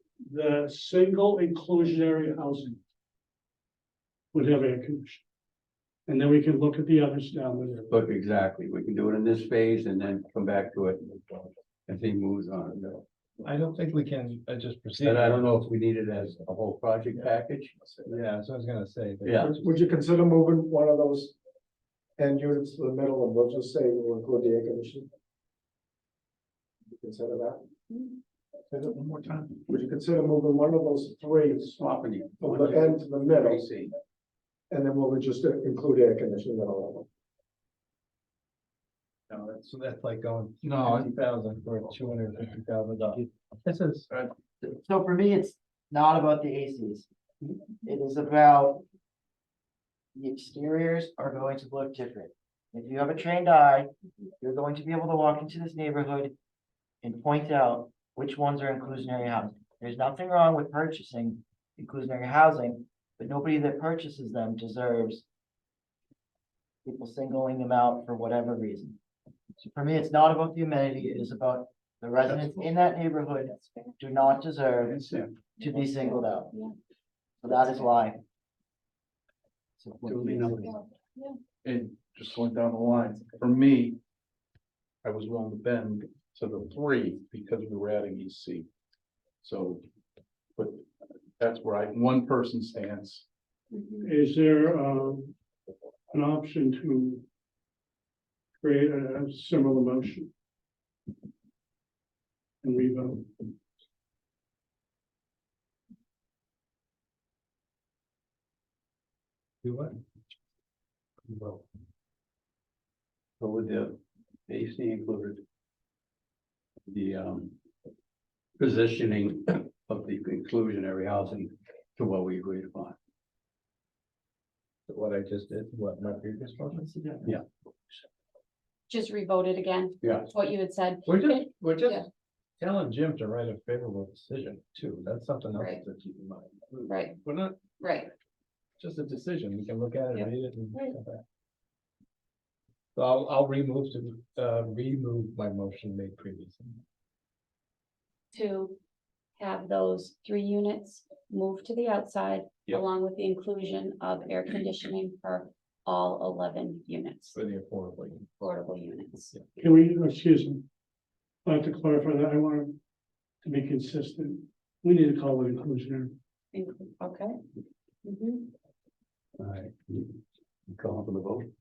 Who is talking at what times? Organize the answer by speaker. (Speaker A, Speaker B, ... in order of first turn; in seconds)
Speaker A: 0.2-2.8, 4.3-5.2, 6.1-8.0, 94.0-95.3, 96.1-97.2, 98.6-100.3, 102.6-103.5, 159.6-160.7, 161.4-162.8, 163.4-166.2
Speaker B: 7.9-13.0, 15.0-18.1, 19.2-19.6, 31.8-33.9, 74.9-75.3, 80.1-80.7, 113.4-115.4, 116.9-117.5, 118.6-123.0, 130.0-130.3, 169.4-171.5
Speaker C: 13.4-15.6, 18.0-19.8, 39.3-44.1, 109.6-110.0, 111.3-111.7, 124.9-127.3, 131.1-132.1, 132.6-137.6, 138.8-141.2, 142.9-146.8, 157.3-158.3
Speaker D: 19.6-21.3, 22.2-25.1, 26.9-27.6, 29.7-31.8, 32.4-33.7, 34.7-37.1
Speaker E: 28.7-29.6, 40.6-41.1, 81.6-84.0, 85.0-88.7, 89.4-89.8, 90.6-90.9, 91.4-93.2
Speaker F: 44.6-47.1, 47.8-48.8, 50.1-56.3, 57.0-65.2, 66.8-69.0, 69.6-75.0, 75.6-76.5, 77.4-78.2, 79.8-80.8
Speaker G: 73.5-74.0, 75.6-76.7, 80.5-81.4, 93.7-94.1, 128.9-132.1, 135.6-135.8, 136.9-137.2, 137.8-138.1, 140.1-141.0, 148.3-148.8, 149.4-157.4, 158.4-159.3, 166.5-167.4, 168.0-168.5